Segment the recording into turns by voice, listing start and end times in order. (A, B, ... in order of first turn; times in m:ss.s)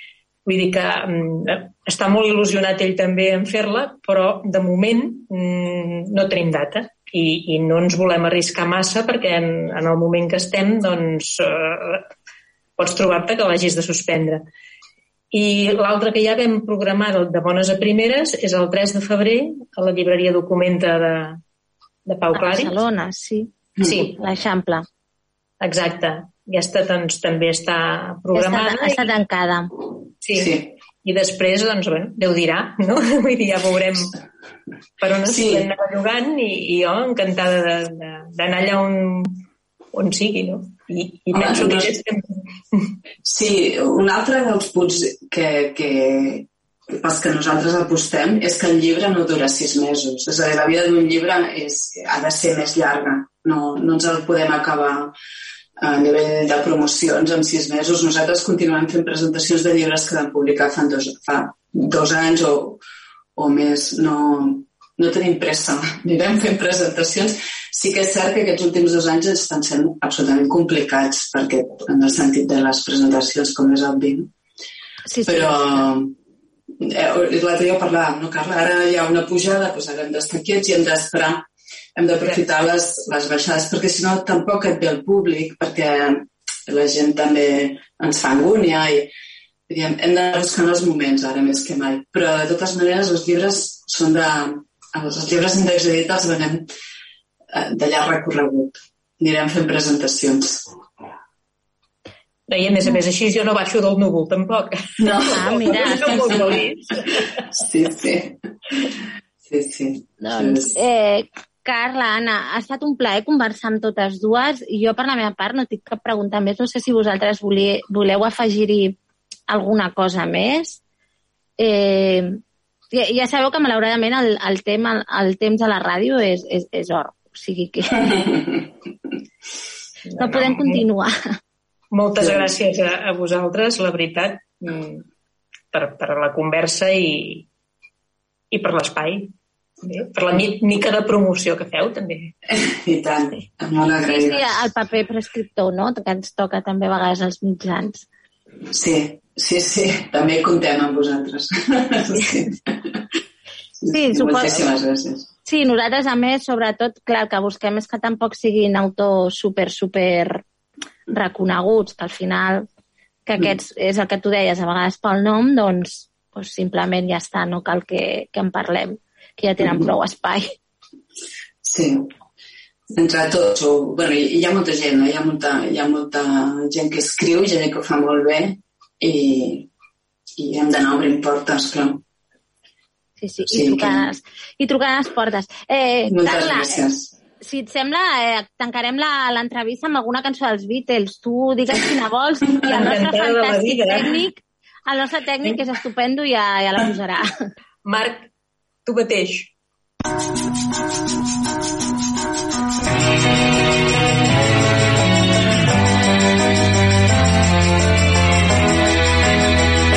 0:00.5-0:12.1 A
0:12.8-0:14.4 A
0:15.3-0:21.4 A
0:22.1-0:22.8 A
0:22.4-0:24.8 B
0:23.8-0:24.1 A
0:25.6-0:29.1 A
0:28.3-0:29.7 B
0:30.2-0:34.1 A
0:30.4-0:30.7 C
0:35.0-0:43.0 A
0:35.2-0:35.7 C
0:41.3-0:42.0 C
0:43.2-0:55.1 C
0:55.8-1:02.8 C
1:03.4-1:14.3 C
1:15.1-1:15.8 B
1:15.3-1:16.1 C
1:16.8-1:21.4 C
1:22.0-1:29.1 C
1:29.7-1:36.7 C
1:37.5-1:40.7 C
1:42.5-1:47.2 A
1:45.0-1:46.6 C
1:45.3-1:46.5 B
1:47.5-1:48.4 C
1:49.4-1:50.8 C
1:50.2-1:59.0 B
1:59.5-2:00.8 B
2:01.6-2:02.4 B
2:02.9-2:08.2 B
2:10.1-2:10.9 A
2:10.2-2:11.1 B
2:11.9-2:15.0 A
2:12.2-2:12.5 C
2:15.7-2:17.5 A
2:18.5-2:19.3 A
2:19.8-2:22.3 A
2:22.5-2:24.7 C
2:24.1-2:28.0 B
2:28.7-2:33.0 C
2:33.8-2:35.3 C
2:33.9-2:34.7 B
2:35.5-2:40.4 B
2:41.1-2:42.7 B
2:43.3-2:50.5 B
2:51.6-2:52.1 C
2:53.0-2:59.7 C
3:00.4-3:02.0 C
3:03.2-3:06.8 B
3:03.5-3:04.2 C
3:06.1-3:07.1 C
3:07.4-3:17.3 B
3:12.7-3:14.3 A
3:17.8-3:18.3 A
3:18.8-3:19.5 A